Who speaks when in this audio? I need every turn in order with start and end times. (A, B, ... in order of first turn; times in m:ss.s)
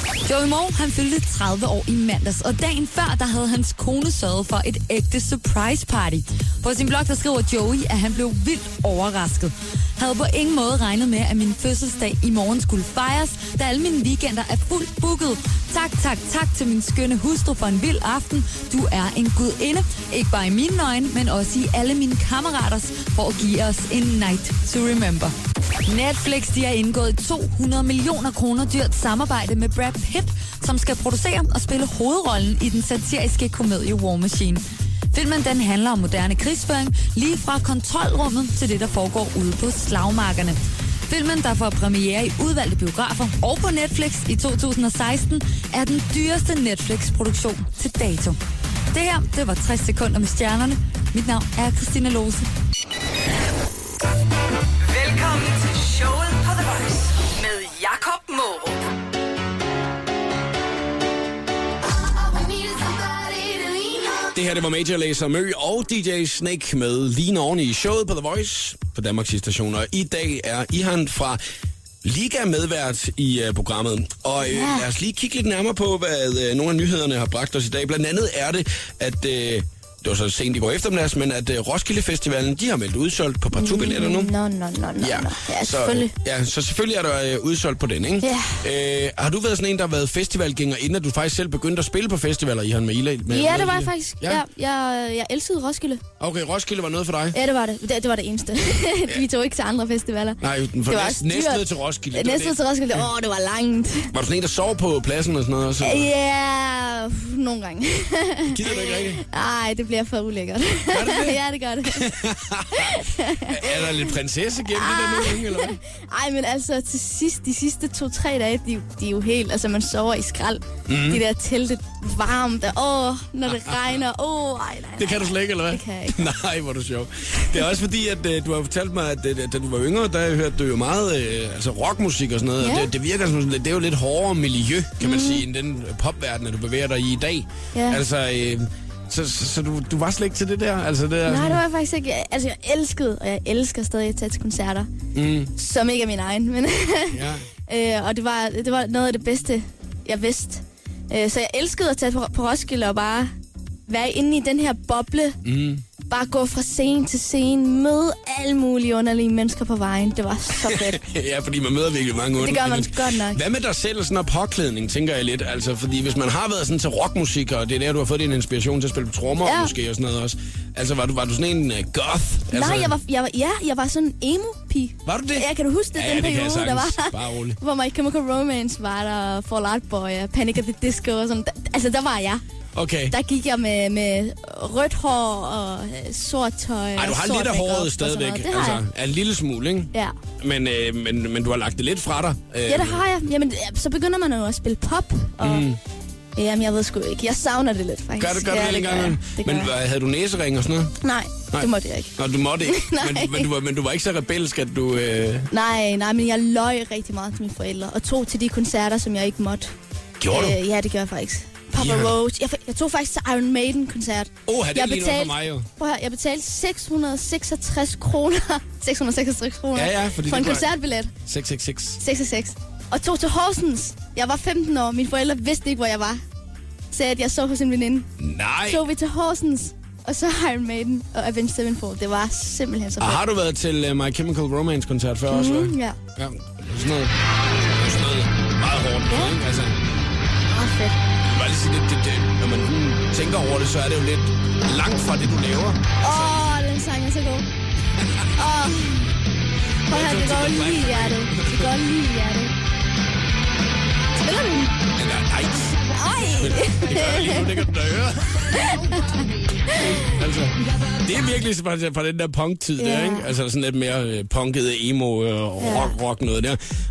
0:00.2-0:25.3 A
0:25.9-0:48.4 A
0:48.9-0:52.5 A
0:54.8-0:58.8 B
1:02.0-1:04.4 C
1:04.3-1:11.4 D
1:12.0-1:24.3 D
1:14.4-1:14.9 E
1:23.5-1:26.1 E
1:25.0-1:34.4 D
1:28.2-1:28.6 E
1:33.3-1:36.0 E
1:36.2-1:37.4 D
1:37.3-1:44.1 E
1:40.4-1:43.0 D
1:44.1-1:46.1 D
1:45.8-1:52.1 E
1:48.5-1:49.2 D
1:50.9-1:55.8 D
1:52.7-1:54.1 E
1:54.7-2:06.2 E
2:00.9-2:01.2 D
2:03.5-2:03.8 D
2:05.0-2:21.6 D
2:12.6-2:12.9 E
2:15.0-2:15.4 E
2:17.7-2:18.0 E
2:21.3-2:24.9 E
2:25.1-2:25.5 D
2:25.6-2:33.3 E
2:27.1-2:27.4 D
2:33.9-2:35.4 E
2:35.4-2:35.8 D
2:36.1-2:41.0 E
2:40.6-2:53.0 D
2:42.4-2:43.4 E
2:49.4-2:49.7 E
2:52.5-3:02.4 E
2:55.0-2:57.6 D
3:02.8-3:03.2 D
3:03.1-3:08.8 E
3:07.0-3:13.0 D
3:12.7-3:15.7 E
3:15.4-3:15.8 D
3:16.4-3:19.7 E
3:18.2-3:21.0 D
3:21.0-3:23.5 E
3:21.5-3:25.5 D
3:25.5-3:29.7 E
3:30.2-3:30.6 D
3:30.3-3:41.1 E
3:31.8-3:32.2 D
3:34.5-3:35.7 D
3:39.8-3:40.7 D
3:41.2-3:42.0 D
3:42.0-3:46.2 E
3:46.9-3:48.1 E
3:48.2-3:48.8 D
3:48.7-3:53.2 E
3:53.0-3:59.8 D
3:55.3-3:56.0 E
3:59.1-3:59.4 E
4:00.5-4:01.0 E
4:01.2-4:06.5 D
4:06.0-4:07.5 E
4:08.0-4:08.3 D
4:08.4-4:09.1 E
4:09.9-4:11.7 D
4:09.9-4:12.5 E
4:14.2-4:14.8 E
4:14.9-4:15.8 D
4:15.8-4:17.6 E
4:16.4-4:18.7 D
4:18.5-4:20.1 E
4:19.7-4:26.6 D
4:22.8-4:23.3 E
4:25.6-4:25.9 E